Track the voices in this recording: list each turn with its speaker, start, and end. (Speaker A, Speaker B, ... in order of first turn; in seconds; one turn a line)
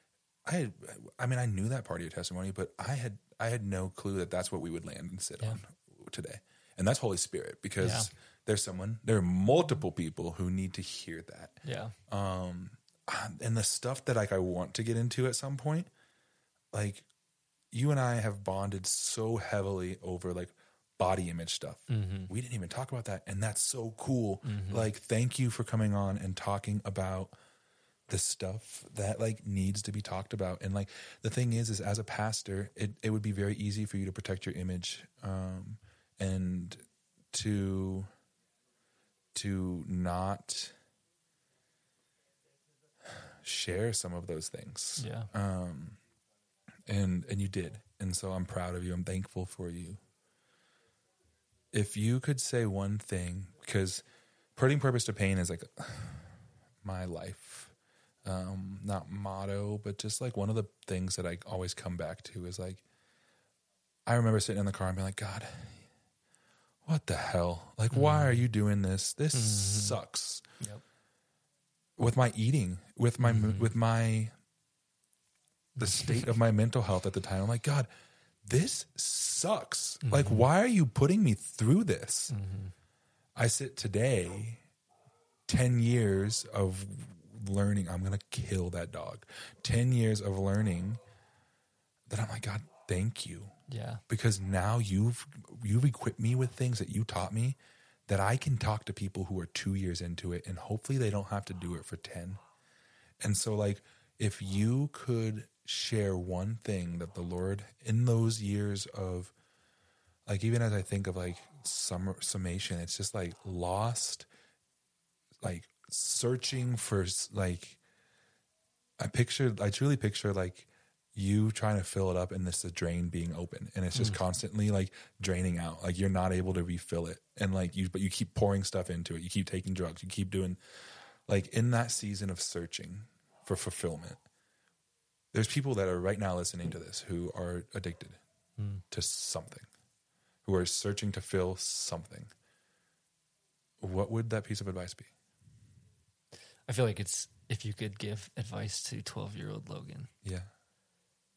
Speaker A: 0.5-11.6
Speaker B: 7.8-8.1
Speaker B: 11.6-11.9
Speaker A: 12.1-15.9
Speaker A: 16.7-17.1
Speaker A: 17.7-27.4
Speaker B: 21.9-22.3
Speaker B: 24.4-24.9
Speaker A: 28.1-38.1
Speaker A: 39.3-40.8
Speaker A: 43.1-46.0
Speaker B: 45.0-45.3
Speaker A: 46.9-50.0
Speaker A: 51.7-54.0
Speaker A: 54.6-57.7
Speaker A: 58.2-62.8
Speaker A: 64.1-65.8
Speaker A: 66.8-70.5
Speaker B: 67.9-68.4
Speaker B: 69.3-70.0
Speaker A: 72.0-74.3
Speaker B: 73.2-73.7
Speaker B: 75.8-76.3
Speaker A: 75.8-77.9
Speaker A: 78.5-82.3
Speaker B: 80.0-80.5
Speaker B: 82.3-82.7
Speaker A: 83.4-84.6
Speaker A: 85.5-91.0
Speaker A: 92.1-93.5
Speaker B: 93.7-94.0
Speaker A: 94.1-97.6
Speaker A: 98.1-102.4
Speaker A: 103.2-109.3
Speaker A: 110.3-114.3
Speaker A: 115.4-117.8
Speaker A: 119.0-130.6
Speaker B: 123.9-124.2
Speaker A: 131.3-134.2
Speaker A: 135.3-138.2
Speaker B: 138.6-138.8
Speaker A: 138.9-139.7
Speaker A: 140.4-142.3
Speaker A: 143.8-145.1
Speaker B: 146.7-150.1
Speaker A: 150.2-150.5